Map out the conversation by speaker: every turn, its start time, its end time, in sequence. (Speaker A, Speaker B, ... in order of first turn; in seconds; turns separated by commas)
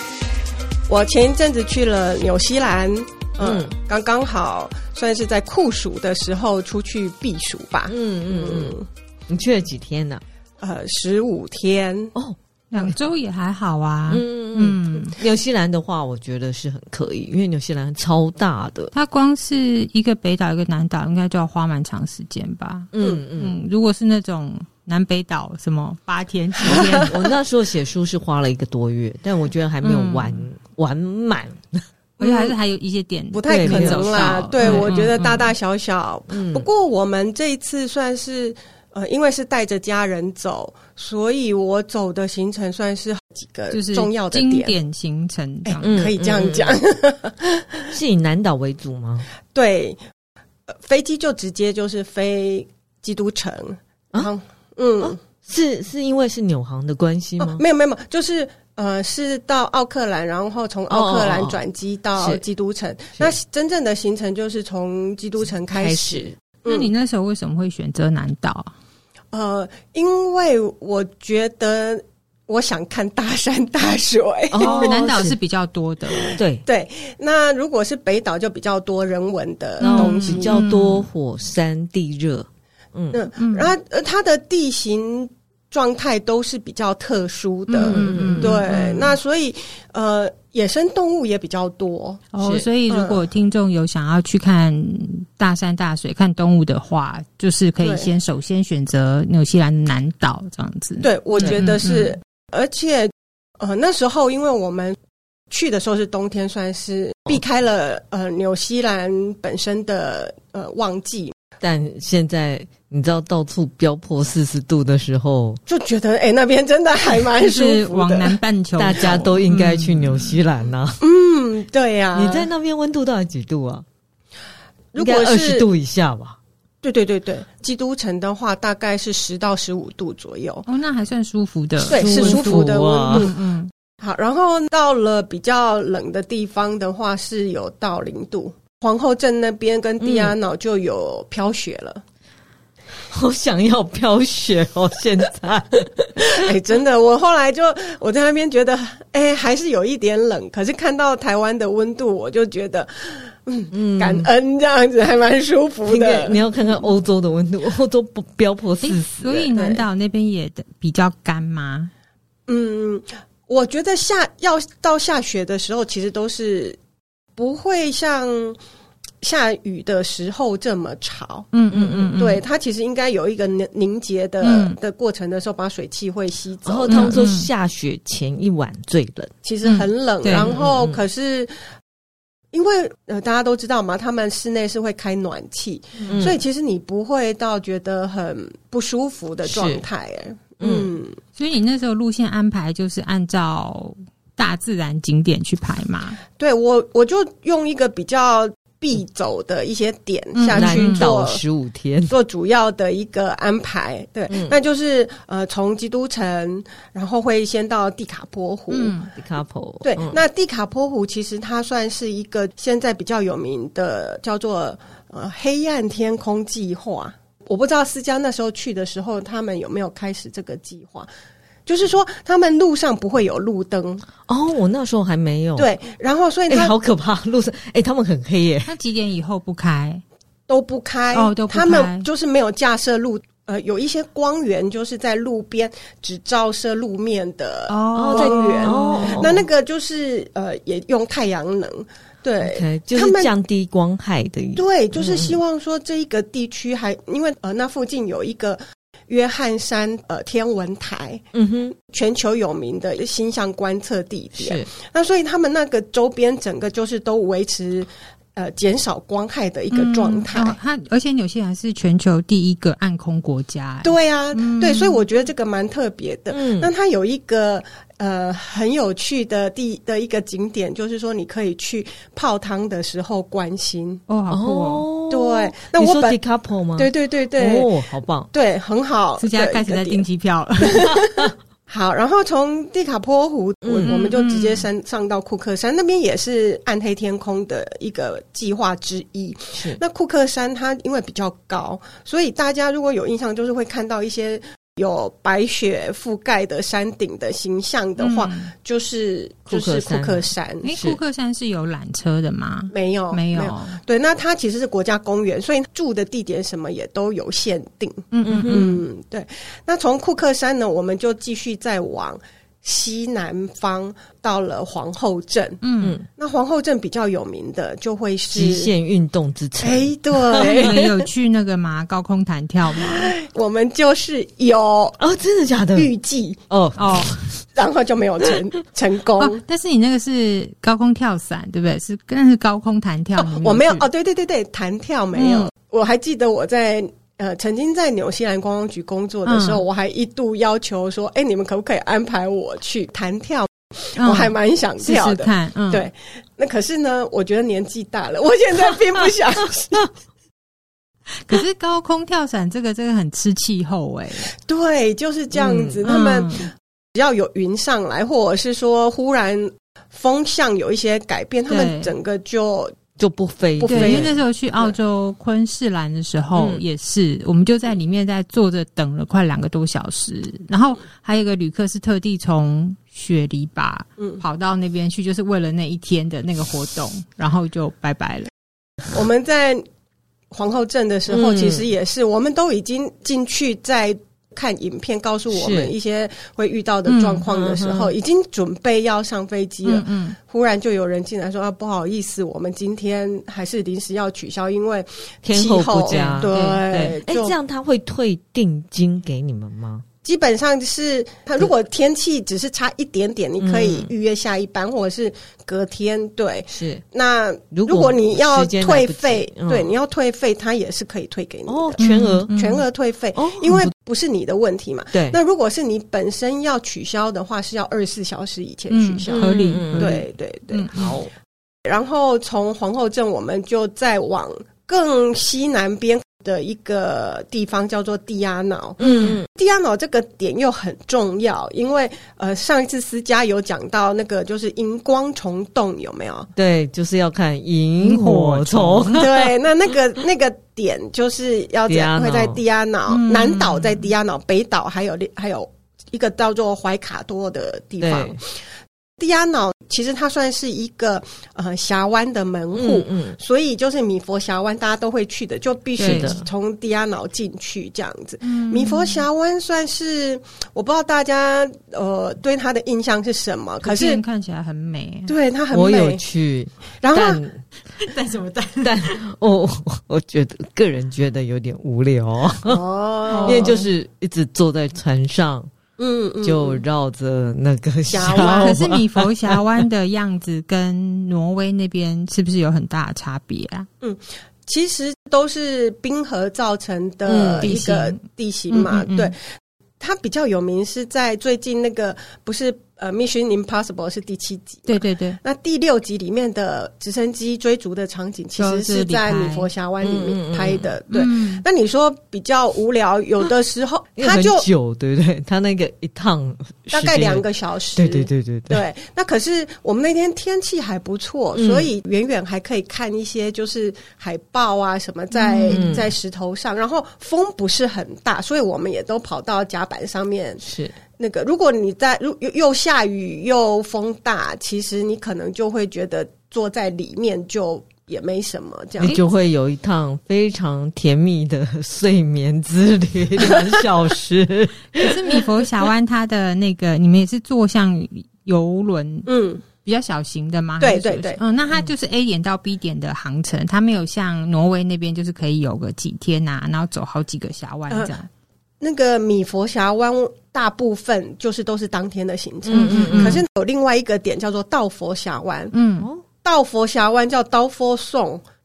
Speaker A: 0.9-8.9, Speaker B: 3.4-3.7, Speaker B: 7.9-8.8, Speaker B: 9.3-10.2, Speaker A: 10.6-12.1, Speaker C: 12.7-15.2, Speaker B: 14.1-18.9, Speaker C: 18.9-27.2, Speaker B: 22.9-23.6, Speaker A: 26.6-27.1, Speaker B: 27.0-31.9, Speaker C: 29.8-30.5, Speaker A: 32.2-32.5, Speaker C: 32.2-35.5, Speaker A: 33.3-44.8, Speaker B: 33.5-34.9, Speaker B: 36.3-36.7, Speaker C: 43.7-46.0, Speaker A: 45.7-48.0, Speaker B: 45.8-46.8, Speaker B: 47.9-49.3, Speaker A: 49.5-50.0, Speaker A: 50.7-55.2, Speaker B: 55.0-57.6, Speaker A: 57.4-66.9, Speaker B: 60.9-61.6, Speaker B: 62.2-62.4, Speaker B: 65.7-66.3, Speaker C: 66.7-68.7, Speaker A: 69.3-75.1, Speaker B: 74.5-75.4, Speaker C: 74.6-76.4, Speaker A: 76.1-80.6, Speaker B: 76.4-76.6, Speaker C: 79.8-81.1, Speaker B: 79.8-83.2, Speaker A: 83.1-92.2, Speaker C: 83.4-83.7, Speaker C: 87.7-89.2, Speaker B: 87.8-88.7, Speaker C: 92.3-102.2, Speaker B: 92.4-92.7, Speaker A: 92.9-93.2, Speaker A: 97.8-98.1, Speaker A: 101.0-105.0, Speaker A: 105.5-111.3, Speaker B: 111.6-115.6, Speaker A: 115.7-118.4, Speaker C: 117.3-120.4, Speaker B: 118.8-121.0, Speaker A: 121.0-122.5, Speaker B: 122.2-123.8, Speaker A: 124.9-125.7, Speaker B: 125.0-126.4, Speaker A: 126.8-130.7, Speaker C: 130.7-133.7, Speaker B: 131.8-133.3, Speaker A: 131.9-133.4, Speaker A: 134.0-142.0, Speaker B: 140.0-140.4, Speaker B: 143.1-146.4, Speaker A: 146.0-156.4, Speaker B: 153.7-154.3, Speaker B: 155.9-159.5, Speaker C: 158.8-161.9, Speaker A: 159.5-159.8, Speaker A: 162.5-166.8, Speaker A: 167.4-168.6, Speaker A: 169.2-171.5, Speaker C: 171.5-172.4, Speaker B: 171.7-172.2, Speaker A: 172.1-177.2, Speaker C: 174.4-174.8, Speaker B: 176.7-179.3, Speaker C: 176.9-177.5, Speaker A: 179.4-181.5, Speaker C: 179.6-180.5, Speaker B: 180.3-181.0, Speaker A: 182.5-191.2, Speaker C: 186.0-186.3, Speaker B: 186.1-186.4, Speaker B: 189.5-189.8, Speaker B: 190.6-190.9, Speaker C: 191.4-196.2, Speaker A: 196.4-201.4, Speaker C: 200.4-201.1, Speaker B: 200.5-202.1, Speaker A: 202.1-208.9, Speaker B: 204.3-204.6, Speaker C: 208.7-209.1, Speaker B: 209.2-210.2, Speaker A: 209.8-221.1, Speaker A: 221.7-224.1, Speaker B: 224.3-225.7, Speaker A: 225.6-226.7, Speaker B: 226.5-228.7, Speaker C: 228.7-230.0, Speaker A: 230.5-243.3, Speaker C: 231.1-232.1, Speaker C: 237.7-239.3, Speaker B: 237.9-239.4, Speaker B: 242.4-245.4, Speaker A: 244.6-251.2, Speaker B: 251.3-251.7, Speaker A: 251.8-260.6, Speaker B: 254.4-254.7, Speaker C: 259.7-265.0, Speaker A: 263.8-274.0, Speaker B: 266.3-266.7, Speaker C: 274.1-274.9, Speaker B: 274.3-278.3, Speaker A: 275.1-276.2, Speaker A: 276.8-277.7, Speaker A: 278.3-280.0, Speaker C: 279.2-280.9, Speaker A: 280.6-300.7, Speaker B: 280.8-281.3, Speaker B: 283.6-283.9, Speaker C: 283.9-284.7, Speaker B: 289.6-289.8, Speaker C: 298.0-298.5, Speaker B: 299.5-301.0, Speaker C: 300.6-303.8, Speaker A: 302.7-315.6, Speaker C: 308.1-308.8, Speaker B: 308.3-308.7, Speaker C: 315.6-316.0, Speaker B: 315.8-316.1, Speaker A: 316.2-318.7, Speaker B: 318.3-320.9, Speaker A: 319.6-321.0, Speaker C: 320.4-323.1, Speaker A: 322.7-325.0, Speaker B: 325.0-325.9, Speaker A: 325.7-326.4, Speaker B: 326.5-327.2, Speaker C: 326.8-327.2, Speaker A: 327.6-329.4, Speaker C: 329.2-333.8, Speaker A: 333.2-349.8, Speaker C: 335.1-335.5, Speaker C: 339.3-339.6, Speaker C: 344.0-345.9, Speaker C: 351.2-354.3, Speaker A: 354.4-362.8, Speaker B: 355.3-355.8, Speaker C: 355.9-356.5, Speaker C: 361.5-361.9, Speaker B: 363.0-364.1, Speaker A: 363.6-364.7, Speaker C: 363.7-378.3, Speaker B: 366.4-366.6, Speaker A: 378.9-379.6, Speaker A: 380.3-397.4, Speaker B: 381.1-381.7, Speaker B: 385.3-385.7, Speaker C: 386.9-387.2, Speaker B: 387.3-387.9, Speaker C: 389.7-390.2, Speaker B: 395.2-396.3, Speaker C: 395.9-397.0, Speaker B: 396.9-399.9, Speaker A: 400.0-420.7, Speaker B: 403.4-403.9, Speaker B: 406.5-406.8, Speaker B: 407.5-409.7, Speaker B: 411.5-412.3, Speaker C: 411.8-412.6, Speaker B: 413.2-413.7, Speaker B: 414.9-415.2, Speaker C: 418.7-420.9, Speaker B: 419.1-420.0, Speaker B: 420.7-421.1, Speaker A: 421.7-436.3, Speaker B: 428.8-429.3, Speaker C: 428.8-429.2, Speaker B: 436.4-439.3, Speaker C: 437.8-439.2, Speaker A: 439.0-448.3, Speaker B: 441.7-442.4, Speaker C: 442.9-443.9, Speaker B: 447.8-448.2, Speaker A: 449.0-464.0, Speaker B: 452.5-453.2, Speaker C: 455.8-456.2, Speaker B: 455.8-456.3, Speaker C: 458.2-459.1, Speaker C: 463.6-465.1, Speaker A: 465.1-466.0, Speaker B: 465.5-467.4, Speaker A: 466.8-467.2, Speaker C: 467.8-469.0, Speaker B: 468.6-472.6, Speaker A: 472.4-473.6, Speaker C: 473.1-473.6, Speaker B: 473.2-475.5, Speaker A: 475.8-476.6, Speaker B: 476.2-479.4, Speaker A: 477.9-478.6, Speaker C: 478.0-483.7, Speaker A: 483.8-489.1, Speaker B: 487.1-487.5, Speaker C: 487.4-489.1, Speaker A: 489.8-504.5, Speaker C: 494.7-495.2, Speaker C: 498.4-499.5, Speaker B: 499.8-500.7, Speaker C: 500.9-501.4, Speaker B: 504.0-507.2, Speaker A: 506.7-520.4, Speaker B: 507.8-508.6, Speaker B: 511.4-511.7, Speaker C: 515.1-515.7, Speaker B: 515.5-515.9, Speaker B: 520.4-520.8, Speaker A: 521.0-529.0, Speaker B: 528.8-535.2, Speaker C: 534.8-548.1, Speaker A: 539.1-539.4, Speaker A: 540.6-541.2, Speaker A: 548.6-555.5, Speaker C: 552.5-553.2, Speaker B: 552.5-553.2, Speaker C: 555.5-555.9, Speaker B: 555.8-556.0, Speaker A: 556.2-558.2